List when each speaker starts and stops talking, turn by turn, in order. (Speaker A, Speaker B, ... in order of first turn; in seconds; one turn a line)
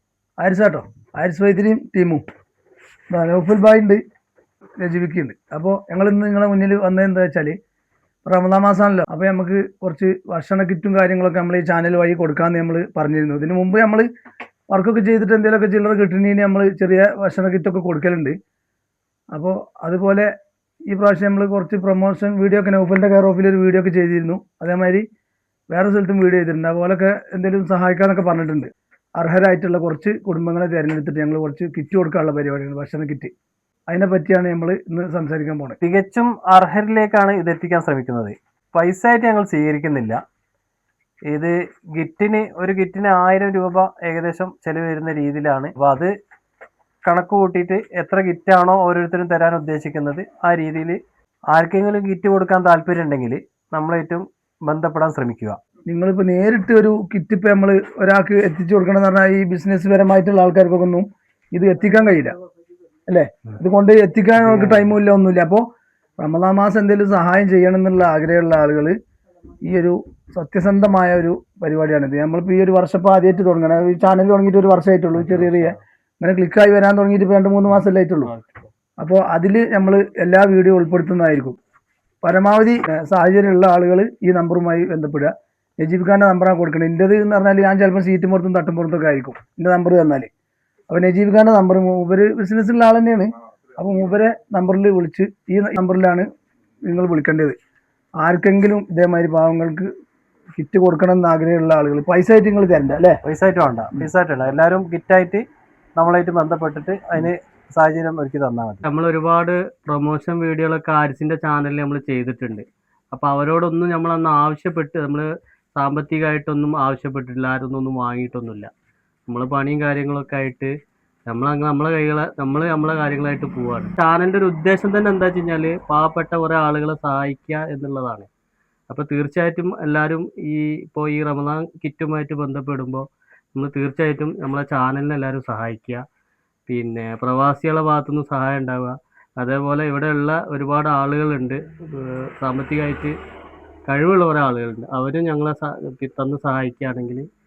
Speaker A: 0.4-2.2
Speaker A: 3.1-4.0
Speaker A: 4.8-7.5
Speaker A: 8.2-14.1
Speaker A: 14.7-18.4
Speaker A: 19.3-20.3
Speaker A: 20.9-25.0
Speaker A: 25.7-33.3
Speaker A: 33.9-35.8
Speaker B: 35.8-40.2
Speaker B: 41.3-46.1
Speaker B: 47.0-51.0
Speaker B: 51.5-55.6
Speaker A: 55.9-62.3
Speaker A: 63.1-65.6
Speaker B: 64.5-64.8
Speaker A: 66.2-68.9
Speaker A: 69.6-78.3
Speaker C: 75.2-75.7
Speaker C: 77.7-78.7
Speaker A: 79.0-81.6
Speaker A: 82.2-90.3
Speaker A: 90.9-96.3
Speaker A: 96.9-97.5
Speaker A: 98.2-99.9
Speaker A: 100.5-103.2
Speaker B: 103.2-105.4
Speaker B: 106.0-108.8
Speaker C: 108.8-118.7
Speaker C: 119.3-120.7
Speaker C: 121.3-128.3
Speaker C: 128.9-136.0
Speaker C: 136.7-143.1
Speaker C: 143.9-147.2